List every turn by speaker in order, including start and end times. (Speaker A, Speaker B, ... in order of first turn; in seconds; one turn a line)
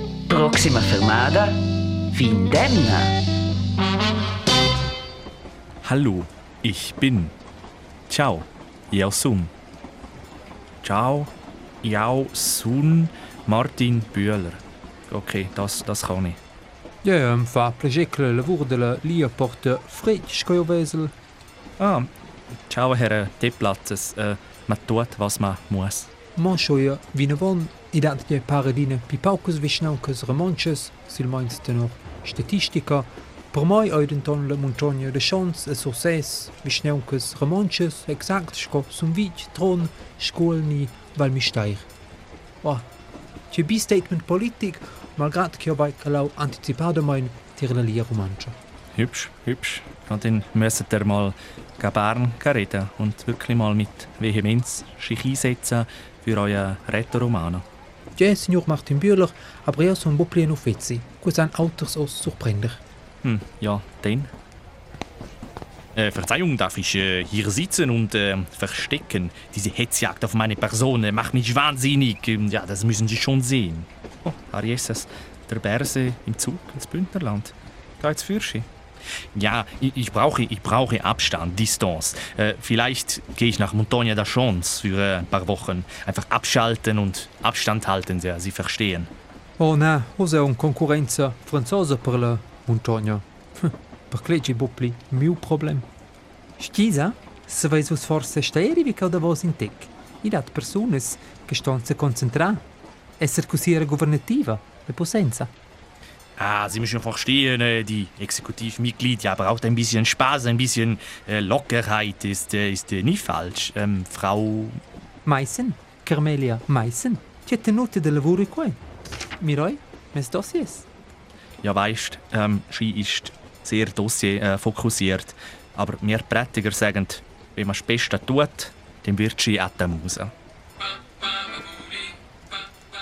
Speaker A: 0.3-1.6
Speaker A: 2.1-3.1
Speaker B: 5.8-7.3
Speaker B: 8.1-9.5
Speaker B: 10.8-11.3
Speaker B: 11.8-16.4
Speaker C: 17.0-21.1
Speaker B: 21.8-22.1
Speaker B: 22.7-26.1
Speaker C: 26.4-41.9
Speaker C: 43.5-48.5
Speaker B: 49.0-57.6
Speaker C: 58.2-62.8
Speaker B: 63.2-64.3
Speaker B: 66.0-78.7
Speaker B: 79.3-89.1
Speaker C: 89.6-95.9
Speaker C: 96.6-102.6
Speaker C: 103.2-105.5
Speaker B: 106.4-114.8
Speaker C: 115.2-118.8
Speaker C: 119.4-120.9
Speaker B: 121.6-130.3